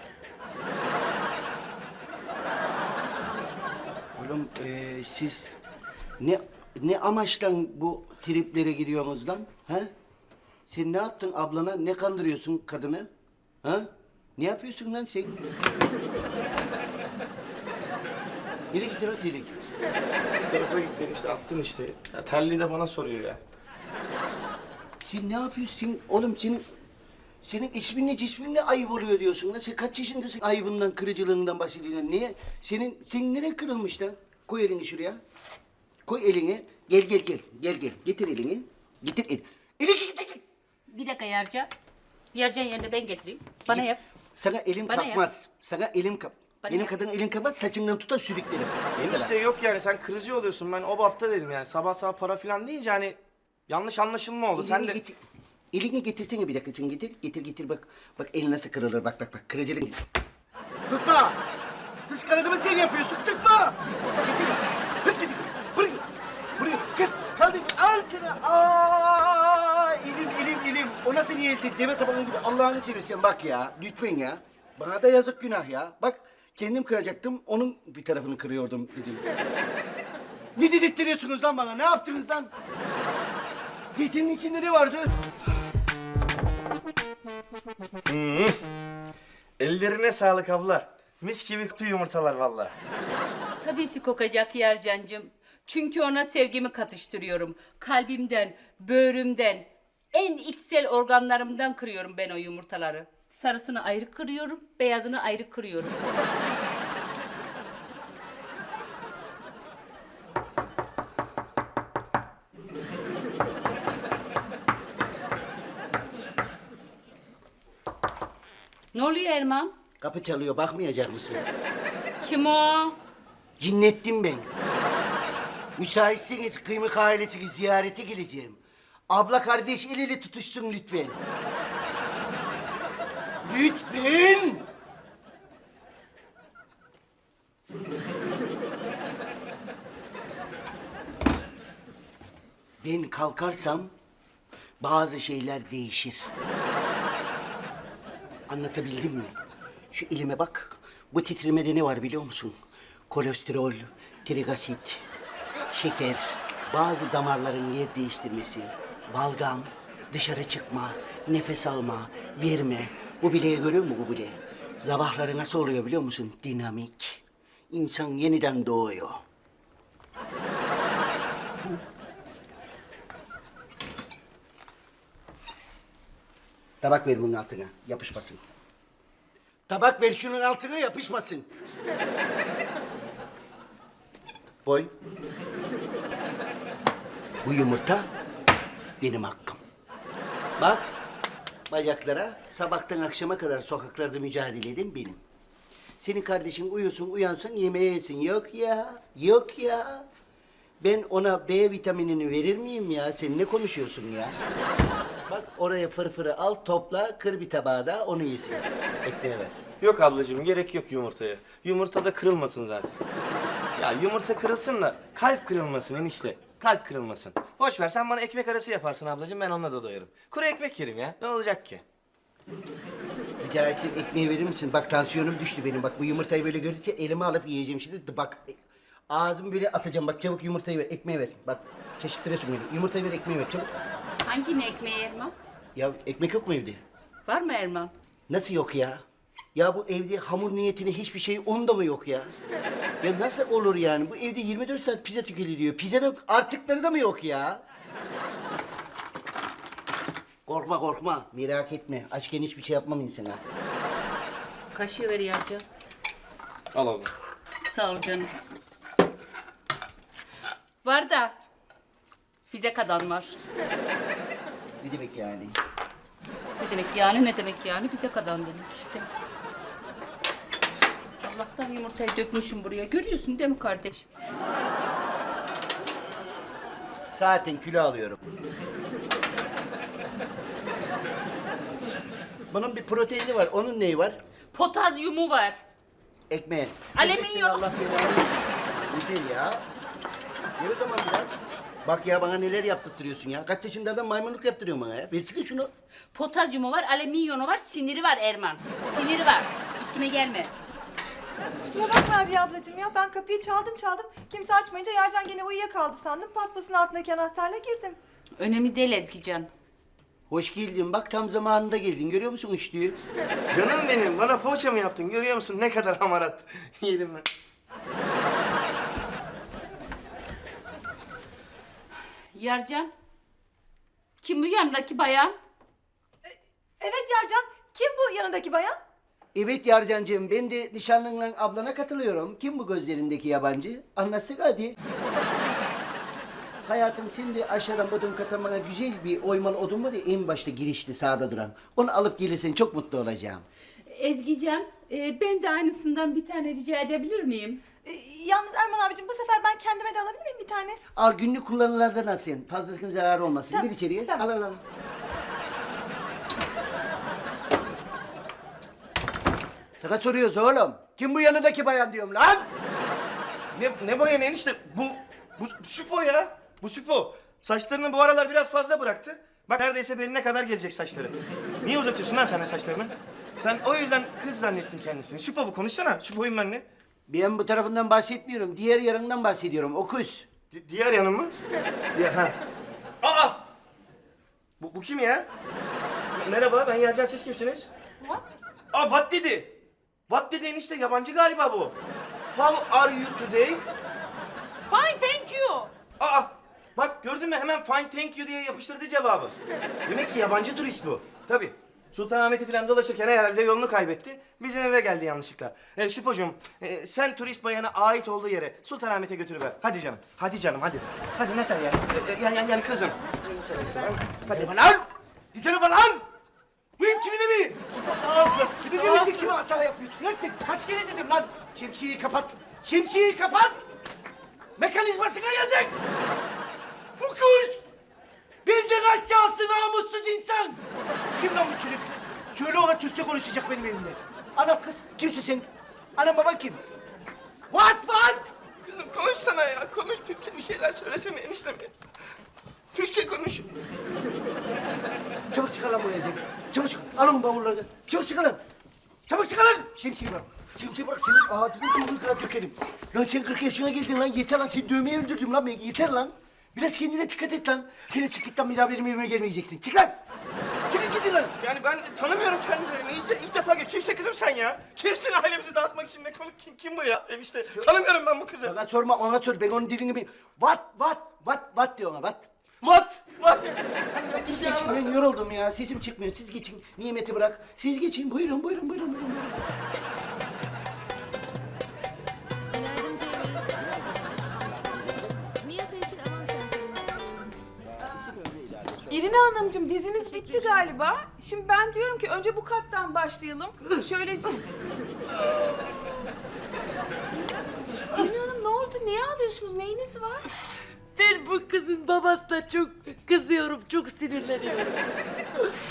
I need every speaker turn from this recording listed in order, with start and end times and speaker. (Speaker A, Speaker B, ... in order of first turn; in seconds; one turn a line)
Speaker A: 4.2-5.5
Speaker A: 6.2-9.9
Speaker A: 10.7-13.1
Speaker A: 13.6-15.4
Speaker A: 18.7-19.6
Speaker B: 20.5-23.4
Speaker A: 25.1-26.6
Speaker A: 27.4-35.2
Speaker A: 36.1-40.5
Speaker C: 40.9-41.7
Speaker C: 42.3-44.0
Speaker A: 43.7-49.3
Speaker C: 44.9-45.2
Speaker C: 46.6-46.9
Speaker B: 49.0-53.2
Speaker B: 53.7-55.0
Speaker A: 54.6-55.2
Speaker A: 55.7-60.0
Speaker A: 60.9-61.4
Speaker A: 62.1-79.2
Speaker A: 80.6-82.5
Speaker A: 83.9-85.2
Speaker B: 88.1-88.6
Speaker B: 89.6-92.7
Speaker C: 93.6-106.0
Speaker C: 118.9-119.7
Speaker A: 120.0-121.5
Speaker C: 122.2-123.0
Speaker A: 123.6-124.5
Speaker A: 125.8-131.2
Speaker A: 133.4-134.7
Speaker A: 142.8-143.9
Speaker A: 144.8-146.3
Speaker A: 148.5-149.4
Speaker A: 149.9-152.6
Speaker A: 153.1-155.1
Speaker A: 155.7-169.2
Speaker A: 176.8-178.4
Speaker A: 179.7-181.5
Speaker A: 184.7-184.9
Speaker A: 187.4-188.1
Speaker A: 189.0-189.6
Speaker A: 190.6-190.9
Speaker A: 191.7-195.2
Speaker A: 196.0-200.1
Speaker A: 200.8-204.4
Speaker A: 205.3-209.6
Speaker B: 209.8-213.0
Speaker B: 213.8-221.8
Speaker A: 223.4-228.6
Speaker A: 229.1-233.7
Speaker C: 234.2-235.3
Speaker A: 235.8-236.8
Speaker C: 237.3-237.9
Speaker A: 238.3-239.0
Speaker A: 239.6-242.3
Speaker A: 243.0-247.6
Speaker A: 250.5-253.4
Speaker C: 254.7-255.6
Speaker B: 256.7-257.1
Speaker C: 257.6-258.3
Speaker C: 260.8-261.4
Speaker C: 262.5-263.4
Speaker A: 264.8-265.6
Speaker C: 266.6-269.1
Speaker C: 271.2-274.1
Speaker A: 277.1-278.2
Speaker A: 282.5-284.2
Speaker C: 284.5-285.6
Speaker A: 286.3-289.6
Speaker C: 286.9-287.6
Speaker A: 290.6-295.7
Speaker C: 296.1-300.5
Speaker D: 301.6-308.0
Speaker C: 308.4-309.5
Speaker A: 310.3-313.0
Speaker B: 313.5-317.3
Speaker C: 322.3-322.9
Speaker C: 324.2-325.4
Speaker D: 326.8-328.8
Speaker A: 329.3-334.8
Speaker A: 336.7-343.5
Speaker C: 343.9-347.6
Speaker D: 347.9-350.8
Speaker A: 350.9-354.6
Speaker D: 353.5-354.2
Speaker A: 359.8-362.5
Speaker B: 363.5-376.6
Speaker A: 377.1-380.3
Speaker B: 380.5-381.4
Speaker B: 381.9-382.4
Speaker B: 383.0-383.4
Speaker B: 384.6-385.3
Speaker B: 386.1-387.7
Speaker E: 388.0-388.3
Speaker B: 388.7-389.6
Speaker B: 390.1-391.8
Speaker B: 392.3-393.7
Speaker E: 394.7-395.7
Speaker B: 396.0-399.4
Speaker B: 399.9-414.5
Speaker A: 414.3-416.1
Speaker A: 416.8-423.6
Speaker B: 417.8-419.4
Speaker A: 424.6-425.8
Speaker A: 427.0-427.6
Speaker A: 428.4-430.6
Speaker A: 431.2-436.6
Speaker A: 437.5-438.3
Speaker B: 438.6-441.7
Speaker B: 442.7-443.5
Speaker A: 445.3-448.4
Speaker A: 449.1-460.0
Speaker A: 460.7-461.4
Speaker B: 461.4-468.6
Speaker A: 468.4-472.3
Speaker B: 472.6-475.0
Speaker A: 474.2-479.4
Speaker F: 482.6-483.4
Speaker A: 484.7-485.1
Speaker F: 485.4-487.3
Speaker E: 487.8-488.1
Speaker E: 488.9-494.4
Speaker G: 495.5-495.8
Speaker E: 497.9-500.3
Speaker G: 501.0-504.9